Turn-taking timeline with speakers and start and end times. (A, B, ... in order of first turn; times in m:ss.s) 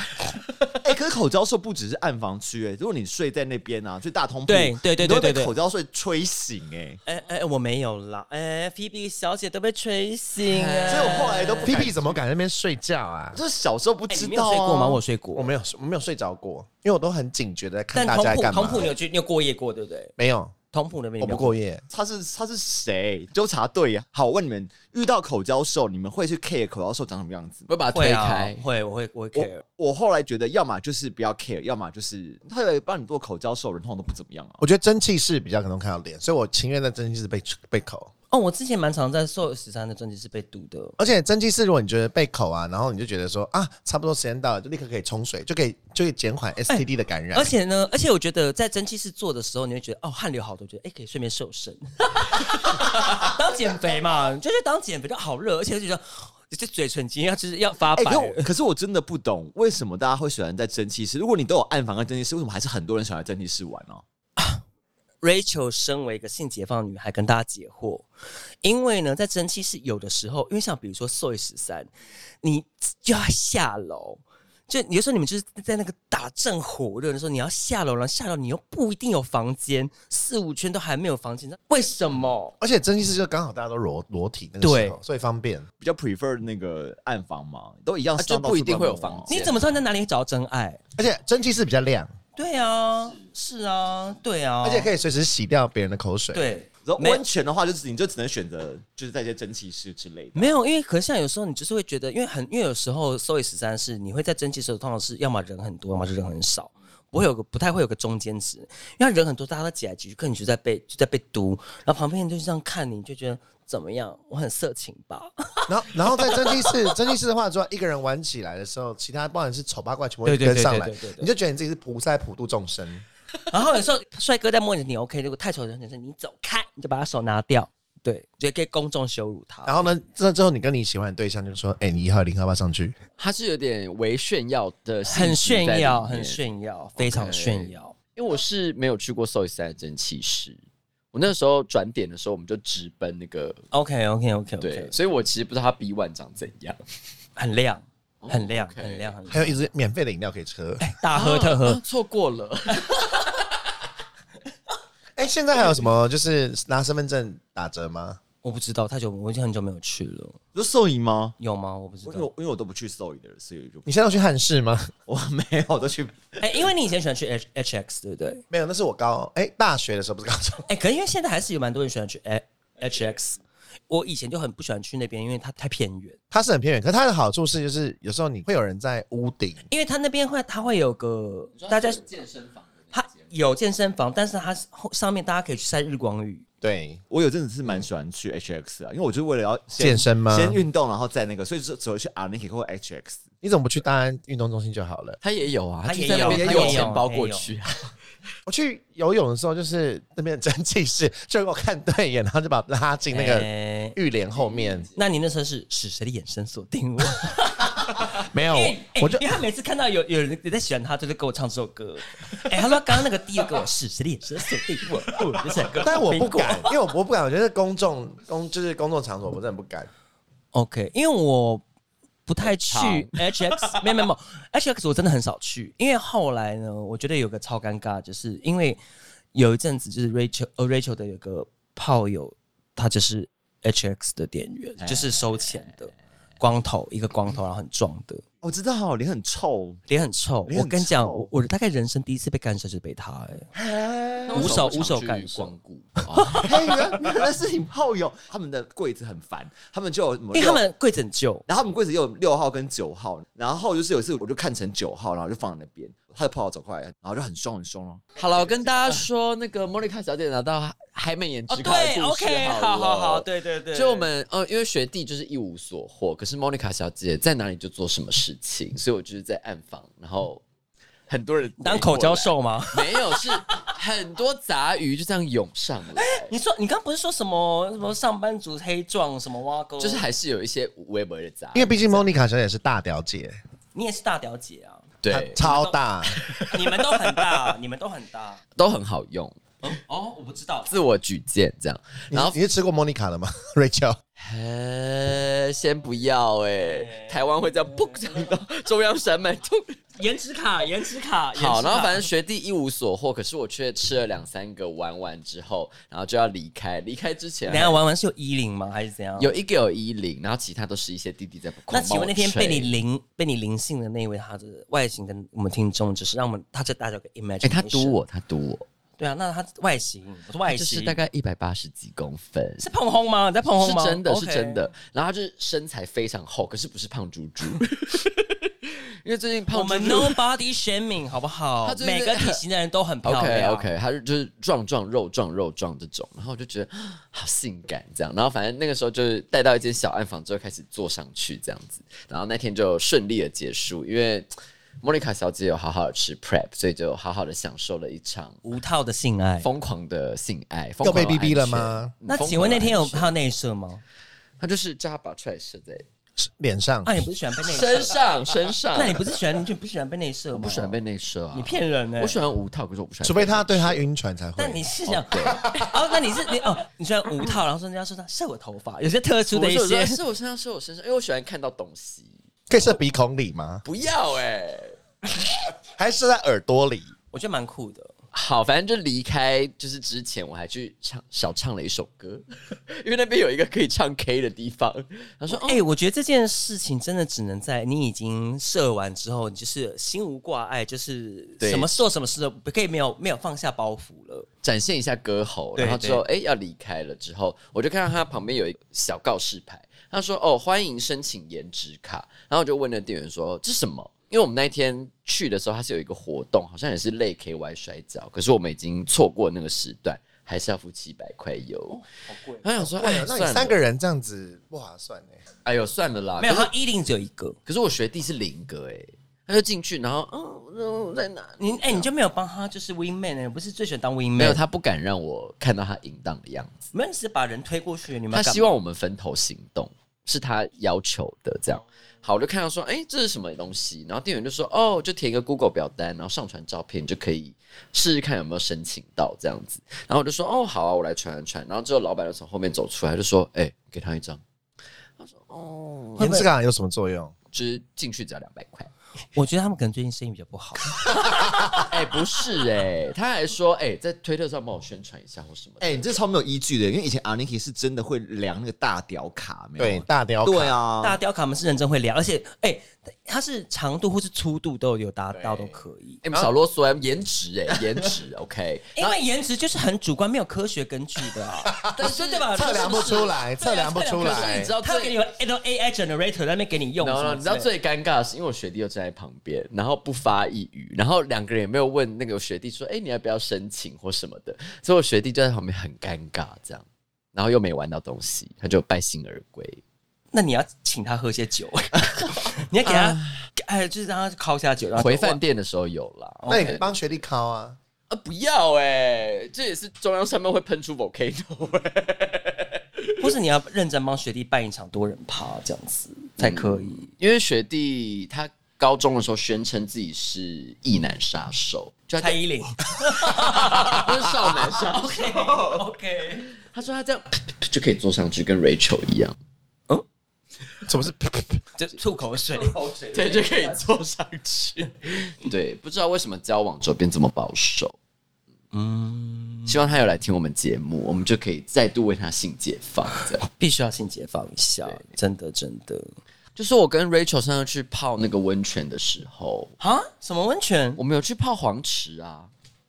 0:00.8-0:07.0 A
0:04.5-0:05.5 B
0:07.0-0:11.8 B
0:10.4-0:11.8 C
0:10.9-0:12.1 A
0:11.6-0:13.4 D
0:13.3-0:15.0 A
0:14.1-0:15.5 B
0:15.4-0:18.9 D
0:17.9-0:20.1 B
0:20.2-0:20.5 D
0:20.7-0:21.6 B
0:21.2-0:21.8 D
0:21.9-0:27.7 A
0:27.7-0:28.6 C
0:27.9-0:29.6 B
0:29.3-0:34.6 A
0:34.6-0:38.1 D
0:38.3-0:41.0 B
0:41.0-0:47.5 D
0:46.7-0:58.5 B
0:58.0-1:04.0 A
1:04.4-1:04.6 B
1:05.2-1:08.1 B
1:08.6-1:11.9 B
1:12.4-1:22.5 B
1:22.6-1:25.7 D
1:24.6-1:25.0 B
1:25.8-1:29.4 A
1:28.2-1:29.8 C
1:29.3-1:30.8 B
1:31.0-1:32.1 D
1:32.4-1:34.9 B
1:34.6-1:36.4 D
1:36.3-1:37.2 B
1:36.8-1:40.5 A
1:40.3-1:56.7 B
1:55.7-2:03.0 D
2:00.2-2:01.3 B
2:03.5-2:09.9 B
2:09.6-2:12.9 D
2:13.2-2:16.4 C
2:15.1-2:17.9 B
2:17.0-2:20.6 C
2:21.1-2:23.6 C
2:23.7-2:24.9 B
2:24.6-2:26.8 C
2:27.4-2:29.6 B
2:28.2-2:29.1 C
2:29.3-2:30.8 D
2:30.8-2:31.8 B
2:31.1-2:33.4 C
2:35.2-2:38.2 D
2:38.4-2:40.4 B
2:40.5-2:41.3 A
2:41.4-2:42.3 B
2:42.0-2:43.8 A
2:43.8-2:44.9 D
2:45.1-2:46.7 A
2:46.4-2:48.4 B
2:48.5-2:50.6 D
2:50.7-2:56.2 B
2:56.3-2:59.6 D
2:59.7-3:02.0 B
3:01.5-3:03.3 C
3:02.9-3:06.4 B
3:06.6-3:07.0 D
3:07.1-3:13.2 A
3:09.8-3:10.6 D
3:13.4-3:15.2 D
3:15.2-3:17.8 C
3:15.8-3:17.5 B
3:16.1-3:16.9 A
3:18.4-3:24.9 D
3:23.1-3:24.0 B
3:24.4-3:24.9 C
3:25.0-3:36.7 B
3:28.0-3:29.3 D
3:35.8-3:39.9 D
3:40.5-3:41.6 B
3:42.3-3:48.8 B
3:42.4-3:43.8 C
3:49.3-3:58.2 B
3:58.4-3:59.8 A
3:59.9-4:03.5 B
4:00.5-4:01.3 A
4:03.5-4:04.6 A
4:04.3-4:06.5 C
4:04.3-4:05.5 B
4:06.2-4:06.5 B
4:06.4-4:10.6 A
4:10.3-4:11.4 B
4:11.5-4:18.5 A
4:18.2-4:30.4 C
4:21.5-4:24.1 B
4:31.1-4:36.3 C
4:31.6-4:33.6 B
4:36.0-4:40.0 B
4:39.8-4:42.0 C
4:41.5-4:43.4 D
4:43.7-4:45.8 B
4:45.0-4:45.4 C
4:45.1-4:46.2 D
4:46.1-4:47.4 C
4:46.4-4:48.4 B
4:48.6-4:49.5 C
4:49.6-4:50.7 B
4:50.7-4:52.4 C
4:52.1-4:54.0 D
4:54.2-4:59.8 C
4:56.6-4:57.4 B
5:00.0-5:02.1 B
5:01.3-5:07.8 C
5:07.4-5:09.3 B
5:09.2-5:12.7 C
5:11.7-5:18.0 B
5:17.4-5:18.6 C
5:19.0-5:21.0 B
5:20.5-5:22.6 C
5:22.6-5:24.7 B
5:23.6-5:30.2 C
5:29.5-5:33.7 B
5:31.6-5:32.4 C
5:33.0-5:44.3 C
5:44.8-5:48.4 C
5:48.4-5:49.5 B
5:49.4-5:53.1 C
5:50.8-5:51.9 D
5:52.1-5:53.8 B
5:54.4-5:55.8 C
5:56.2-5:56.9 D
5:56.8-5:58.0 B
5:57.4-5:59.2 C
5:58.7-6:00.8 B
6:00.3-6:03.8 C
6:01.3-6:02.2 B
6:03.0-6:04.7 D
6:04.4-6:10.0 B
6:04.9-6:05.8 C
6:05.2-6:05.6 D
6:09.3-6:12.1 C
6:12.5-6:13.6 D
6:13.6-6:14.8 C
6:15.7-6:16.9 D
6:17.1-6:17.9 B
6:18.1-6:25.6 C
6:25.3-6:34.3 B
6:31.4-6:31.8 C
6:34.4-6:51.8 C
6:35.6-6:36.0 B
6:51.7-6:52.4 B
6:52.4-6:53.6 C
6:52.6-6:55.2 D
6:55.4-6:56.5 C
6:56.2-6:57.4 B
6:57.4-7:01.9 C
7:01.4-7:04.4 B
7:04.2-7:06.7 C
7:06.7-7:08.5 B
7:08.1-7:24.2 C
7:25.0-7:26.2 C
7:26.0-7:27.1 D
7:26.0-7:26.3 B
7:27.3-7:28.7 C
7:29.1-7:31.6 B
7:30.9-7:35.8 C
7:35.6-7:41.0 A
7:39.6-7:40.5 D
7:40.8-7:46.0 B
7:45.1-7:49.0 C
7:48.8-7:57.5 B
7:51.7-7:52.9 C
7:52.3-7:54.5 D
7:53.9-7:55.0 C
7:56.8-8:09.6 C
8:10.1-8:15.2 B
8:12.6-8:13.2 C
8:14.7-8:16.7 C
8:16.2-8:16.6 B
8:16.3-8:17.6 D
8:17.9-8:23.2 C
8:23.0-8:26.9 B
8:26.2-8:32.2 C
8:32.0-8:36.3 B
8:33.0-8:35.6 C
8:36.4-8:39.1 C
8:40.7-8:41.4 D
8:41.6-8:43.6 B
8:42.4-8:47.8 C
8:48.5-8:49.7 B
8:49.4-8:53.2 C
8:53.0-8:55.9 B
8:56.4-8:59.5 C
8:59.6-9:00.8 B
9:00.8-9:02.3 C